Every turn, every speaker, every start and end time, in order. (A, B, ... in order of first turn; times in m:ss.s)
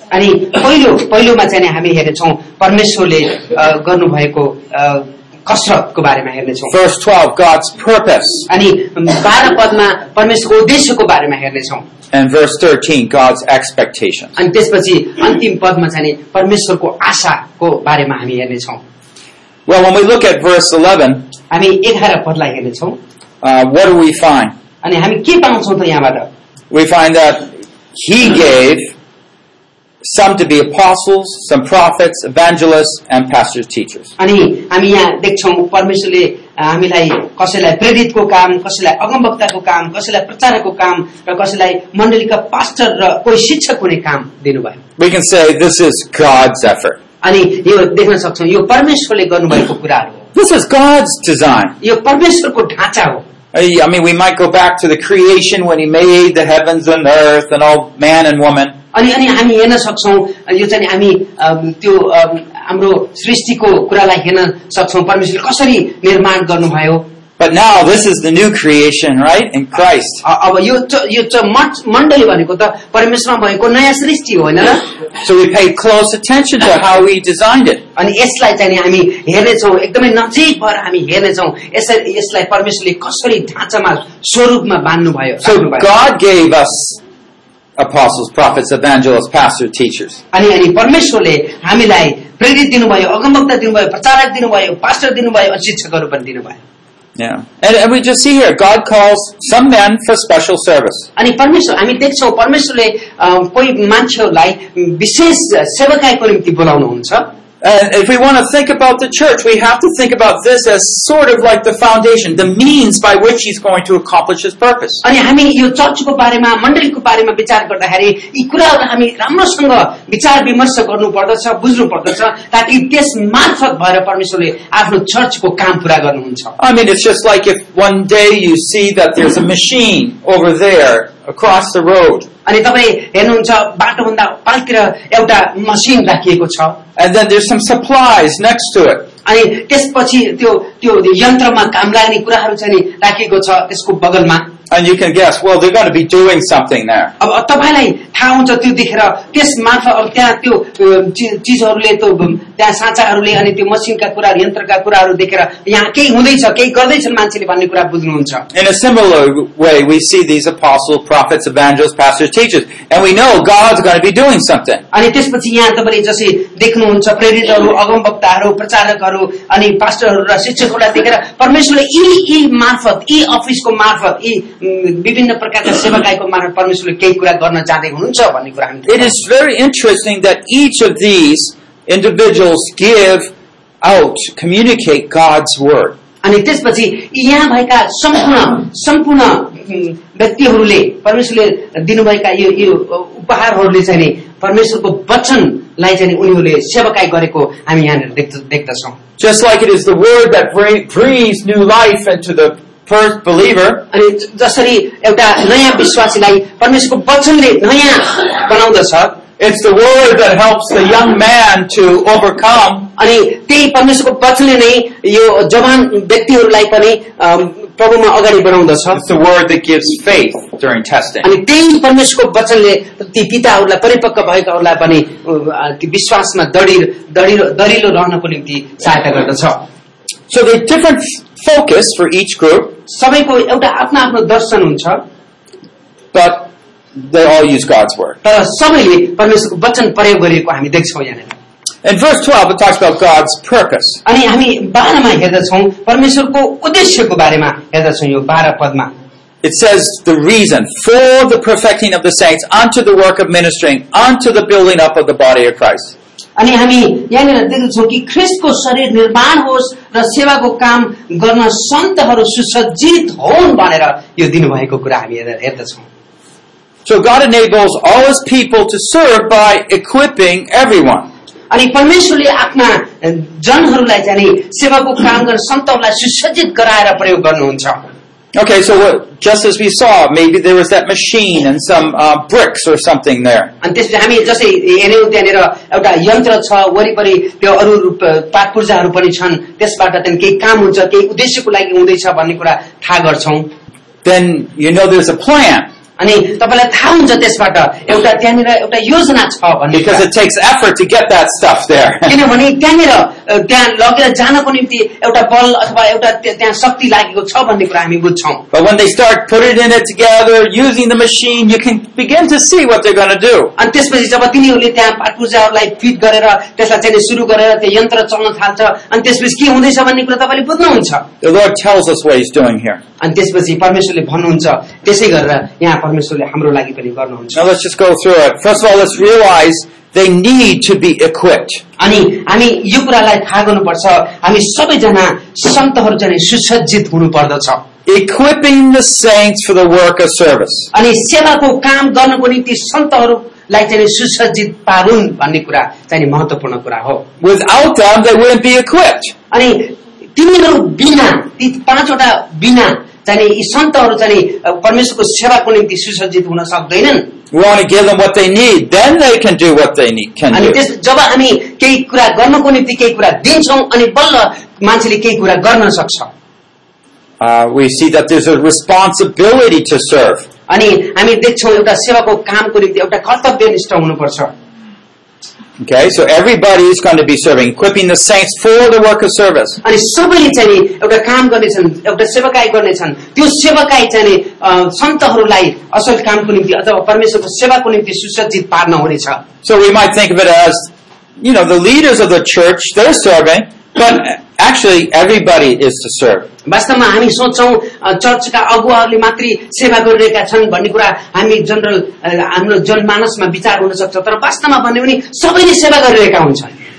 0:00.1-0:06.7 A
0:06.7-0:08.5 B
0:08.5-0:11.9 A
0:12.1-0:14.4 B
0:14.4-0:18.8 A
0:19.7-0:21.3 B
0:21.5-0:23.0 A
0:23.4-0:24.6 B
0:24.8-0:26.3 A
0:26.7-0:29.0 B
0:30.0-0:34.1 B
0:34.2-0:44.8 A
0:45.0-0:47.0 B
0:47.2-0:50.2 A
0:50.3-0:51.8 B
0:51.8-0:53.2 A
0:53.5-0:58.8 B
0:58.9-1:07.1 A
1:07.4-1:10.2 B
1:10.2-1:14.8 A
1:15.2-1:17.8 B
1:18.0-1:25.9 A
1:25.4-1:27.0 B
1:27.8-1:30.2 B
1:30.3-1:36.6 A
1:37.2-1:41.1 B
1:41.2-1:47.3 A
1:47.6-1:55.0 B
1:55.0-2:06.6 A
2:06.6-2:12.3 B
2:12.5-2:16.8 A
2:17.0-2:19.1 B
2:19.2-2:24.5 A
2:24.7-2:27.1 B
2:27.2-2:38.4 A
2:38.5-2:44.8 B
2:44.9-2:59.1 A
2:58.9-3:03.3 B
3:03.8-3:06.0 B
3:06.2-3:19.0 A
3:19.2-3:23.9 B
3:23.9-3:29.2 A
3:29.4-3:32.9 B
3:33.0-3:39.0 A
3:38.9-3:41.3 B
3:41.2-3:49.6 A
3:50.3-3:52.8 B
3:52.9-3:55.0 A
3:56.1-3:58.2 B
3:58.2-4:01.3 A
4:01.8-4:04.0 B
4:04.0-4:08.9 A
4:09.4-4:16.0 B
4:16.4-4:25.9 A
4:26.8-4:31.1 B
4:31.5-4:37.8 A
4:38.4-4:43.5 B
4:43.6-4:53.5 A
4:54.0-4:55.7 B
4:56.0-5:00.1 A
4:59.7-5:02.2 B
5:02.1-5:08.4 A
5:08.5-5:13.5 B
5:13.6-5:21.1 A
5:21.2-5:22.8 B
5:23.0-5:27.4 A
5:27.4-5:31.6 B
5:31.8-5:37.6 A
5:37.9-5:40.7 B
5:40.7-5:47.0 A
5:47.2-5:49.1 B
5:49.3-5:57.1 A
5:57.3-6:00.6 B
6:00.3-6:06.1 A
6:07.2-6:10.3 B
6:10.5-6:14.3 A
6:15.6-6:19.6 B
6:19.6-6:29.2 A
6:29.4-6:36.3 B
6:36.5-6:46.6 A